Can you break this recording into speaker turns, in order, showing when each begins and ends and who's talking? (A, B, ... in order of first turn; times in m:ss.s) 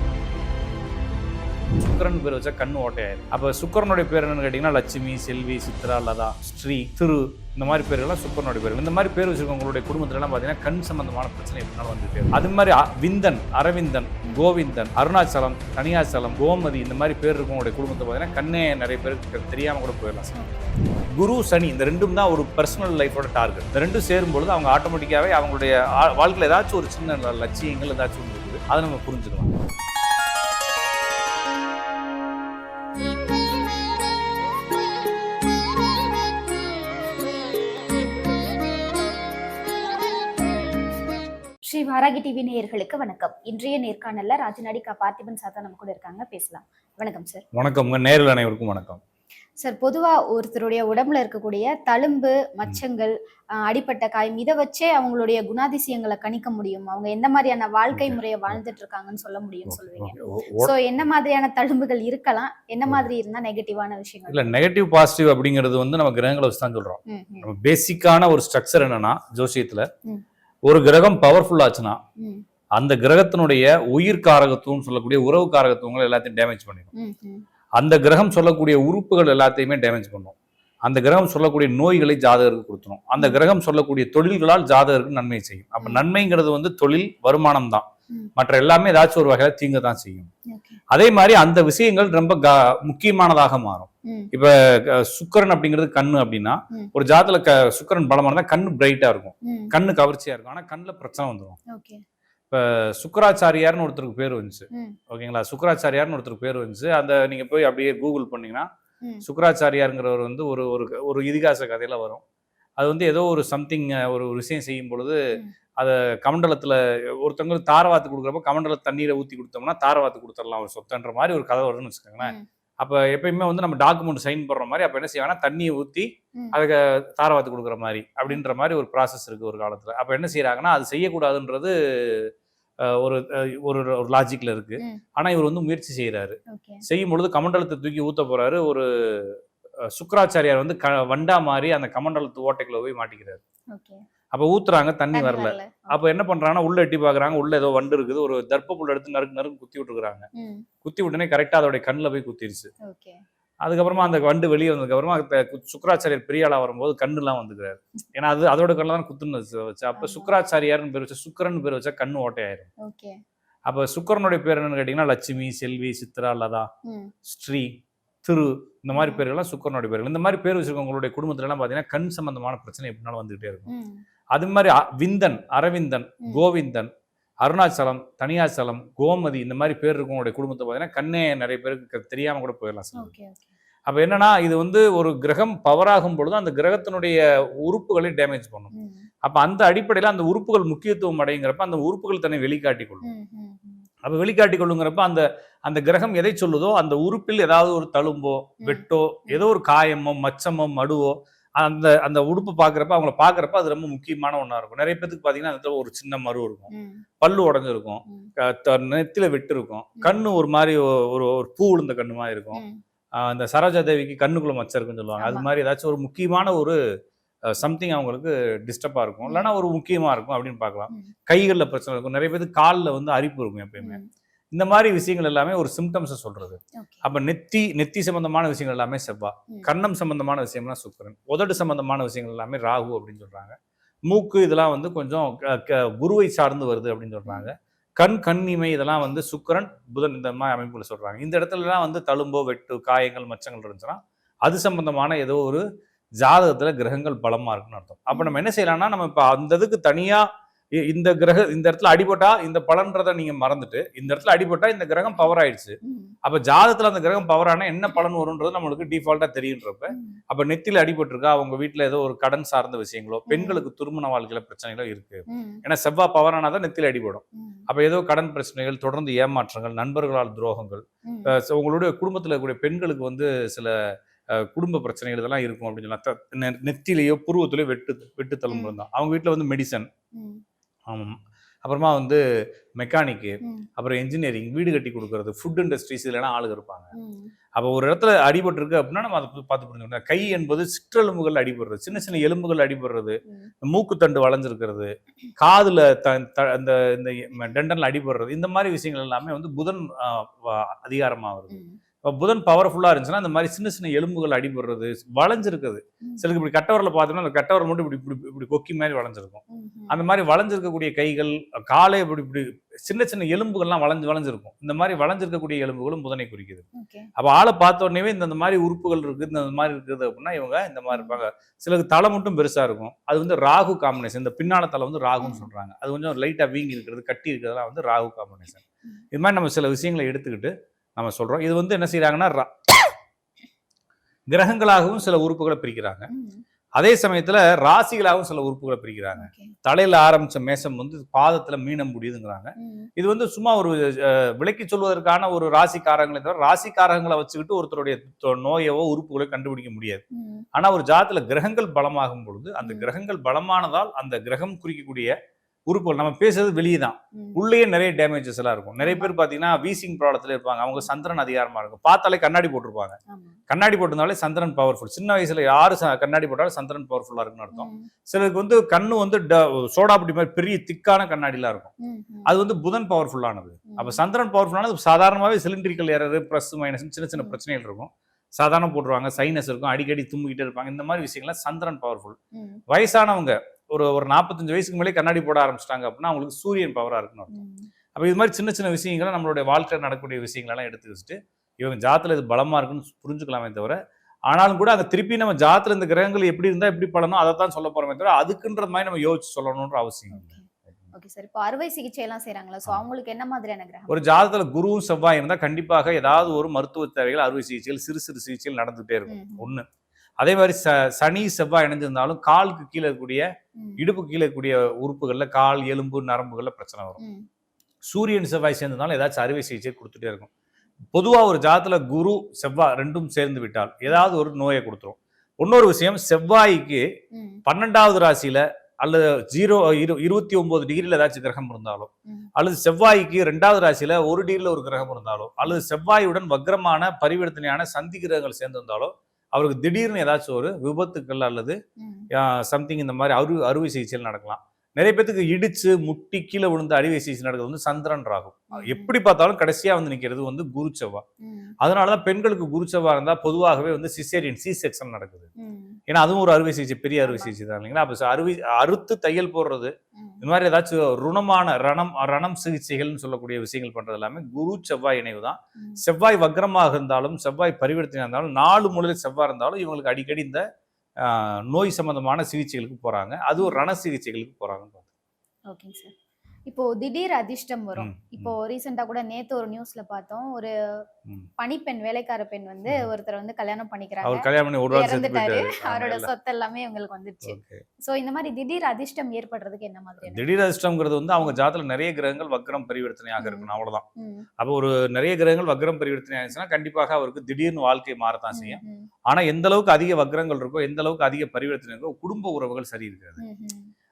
0:01.7-0:20.4 A
0:20.4-0:20.8 B
0:21.1-0:29.6 A
0:41.7-0:47.4 B
0:47.6-0:49.0 A
0:49.6-1:04.6 B
0:57.9-0:58.6 A
0:59.7-1:00.8 A
1:04.3-1:09.9 A
1:07.1-1:07.5 B
1:10.7-1:12.0 A
1:12.2-1:12.4 B
1:12.8-1:16.9 A
1:17.0-1:17.4 B
1:17.8-1:27.8 A
1:23.2-1:23.4 B
1:28.4-1:30.3 A
1:30.5-1:30.8 B
1:30.9-1:41.6 A
1:39.4-1:39.7 B
1:41.7-1:42.0 B
1:42.5-1:48.7 A
1:44.7-1:45.0 B
1:49.2-1:52.2 A
1:52.8-1:55.2 A
1:55.8-2:12.3 A
2:12.8-2:19.4 A
2:16.5-2:16.8 B
2:19.9-2:23.4 A
2:23.7-2:24.0 B
2:24.3-2:30.3 A
2:25.1-2:26.0 B
2:30.4-2:30.6 B
2:30.8-2:32.7 A
2:32.8-2:33.2 B
2:33.6-2:42.7 A
2:40.0-2:40.4 B
2:42.8-2:43.2 B
2:43.7-2:46.7 A
2:46.9-2:47.1 B
2:47.3-2:47.7 A
2:48.2-2:53.7 A
2:48.9-2:49.2 B
2:53.7-2:54.0 B
2:54.3-2:56.9 A
2:57.4-3:03.1 A
3:02.9-3:03.5 B
3:03.9-3:08.7 A
3:08.7-3:09.0 B
3:09.2-3:13.1 A
3:13.0-3:13.9 B
3:14.0-3:32.6 A
3:18.6-3:19.4 B
3:26.7-3:27.0 B
3:32.5-3:32.8 B
3:33.2-3:36.8 A
3:35.2-3:35.5 B
3:37.5-3:44.0 A
3:39.3-3:39.5 B
3:43.8-3:44.1 B
3:44.5-3:53.6 A
3:46.8-3:47.0 B
3:54.1-4:05.6 A
4:06.2-4:10.2 A
4:08.1-4:08.4 B
4:10.8-4:39.9 A
4:15.2-4:16.2 B
4:19.9-4:20.2 B
4:23.3-4:23.6 B
4:25.3-4:25.6 B
4:27.4-4:27.6 B
4:31.1-4:31.3 B
4:40.2-4:40.4 B
4:40.9-4:42.2 A
4:42.8-4:46.9 A
4:47.0-4:47.3 B
4:47.6-5:16.6 A
5:01.5-5:01.8 B
5:09.5-5:10.0 B
5:16.8-5:17.1 B
5:17.2-5:32.6 A
5:20.9-5:21.2 B
5:25.2-5:25.5 B
5:34.3-5:36.1 A
5:36.1-5:36.4 B
5:36.8-5:50.0 A
5:39.2-5:39.5 B
5:42.6-5:42.9 B
5:50.1-5:50.4 B
5:50.6-5:55.2 A
5:52.6-5:52.9 B
5:55.7-6:03.0 A
5:57.2-5:57.4 B
5:58.8-5:59.1 B
6:03.1-6:03.4 B
6:03.5-6:11.7 A
6:07.5-6:07.9 B
6:11.8-6:12.3 B
6:12.3-6:22.2 A
6:13.7-6:14.0 B
6:22.4-6:22.6 B
6:22.7-6:27.4 A
6:27.3-6:27.7 B
6:28.0-6:33.8 A
6:34.3-6:40.3 A
6:40.1-6:44.0 B
6:43.9-6:49.6 A
6:49.1-6:49.5 B
6:50.2-6:53.3 A
6:53.8-6:57.0 A
6:57.0-6:57.3 B
6:57.9-7:00.3 A
7:00.9-7:06.8 A
7:07.1-7:07.4 B
7:07.5-7:21.6 A
7:21.8-7:22.1 B
7:22.1-7:31.0 A
7:28.5-7:28.9 B
7:31.2-7:31.5 B
7:31.6-7:35.3 A
7:35.4-7:35.8 B
7:35.9-7:50.4 A
7:37.0-7:37.4 B
7:40.0-7:40.2 B
7:51.0-7:54.9 A
7:55.5-7:55.9 B
7:56.5-8:00.5 B
7:57.8-7:58.3 A
8:01.4-8:10.2 B
8:04.0-8:06.1 A
8:07.2-8:07.6 A
8:10.0-8:13.8 A
8:13.2-8:14.3 B
8:14.4-8:23.2 A
8:18.3-8:18.9 B
8:23.2-8:23.7 B